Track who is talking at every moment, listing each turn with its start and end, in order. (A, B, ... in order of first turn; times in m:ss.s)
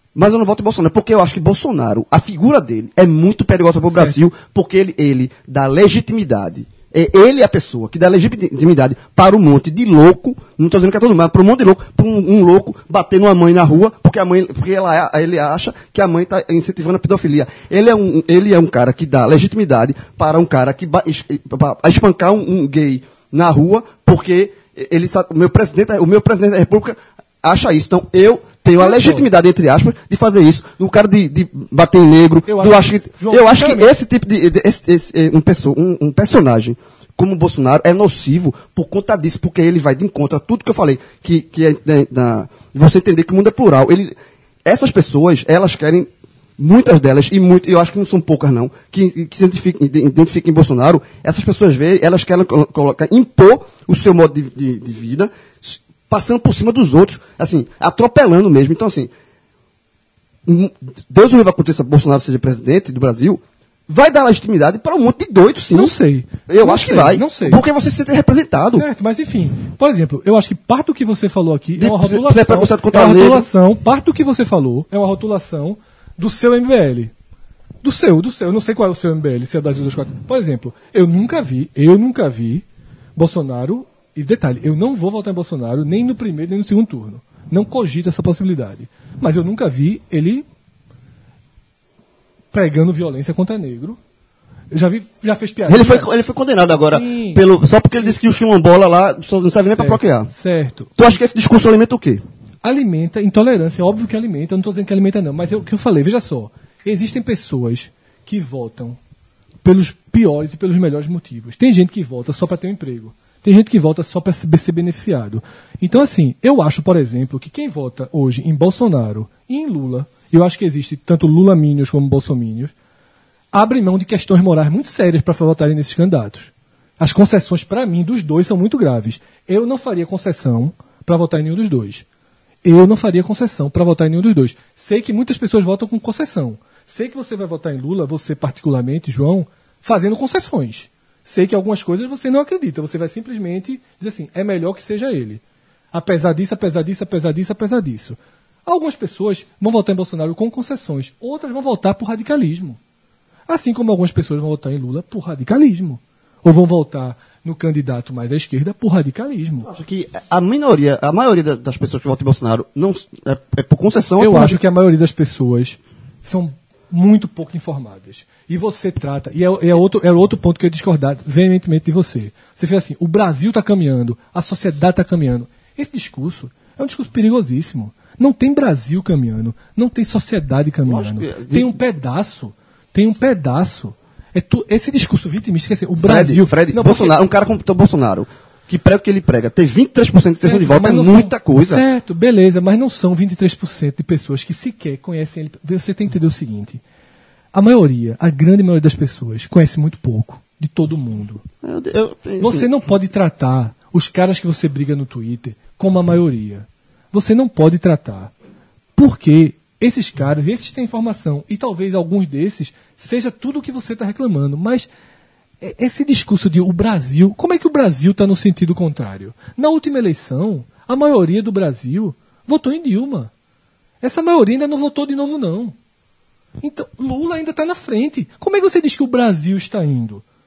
0:00.2-0:59.1 A
0:03.9-0:04.2 B
0:28.8-0:29.3 B
0:32.5-0:33.9 B
1:00.5-1:06.0 A
1:05.7-1:07.6 B
1:06.5-1:08.9 A
1:08.7-1:17.1 B
1:11.8-1:13.5 A
1:17.8-1:22.6 B
1:23.2-1:30.4 B
1:32.5-1:34.0 B
1:34.7-1:36.1 B
1:35.7-1:40.3 A
1:36.9-1:38.2 B
1:39.7-1:40.9 B
1:41.0-1:42.2 A
1:42.6-1:49.0 B
1:49.6-2:02.7 B
2:03.5-2:12.0 B
2:12.6-2:32.8 B
2:33.5-2:39.7 B
2:39.7-2:44.6 A
2:44.2-3:07.2 B
3:00.8-3:01.7 A
3:06.0-3:11.9 A
3:10.4-3:16.8 B
3:17.5-3:21.4 B
3:21.6-3:22.7 A
3:22.4-3:28.3 B
3:29.0-3:34.9 B
3:35.6-3:43.3 B
3:44.0-3:45.8 B
3:46.6-3:50.2 B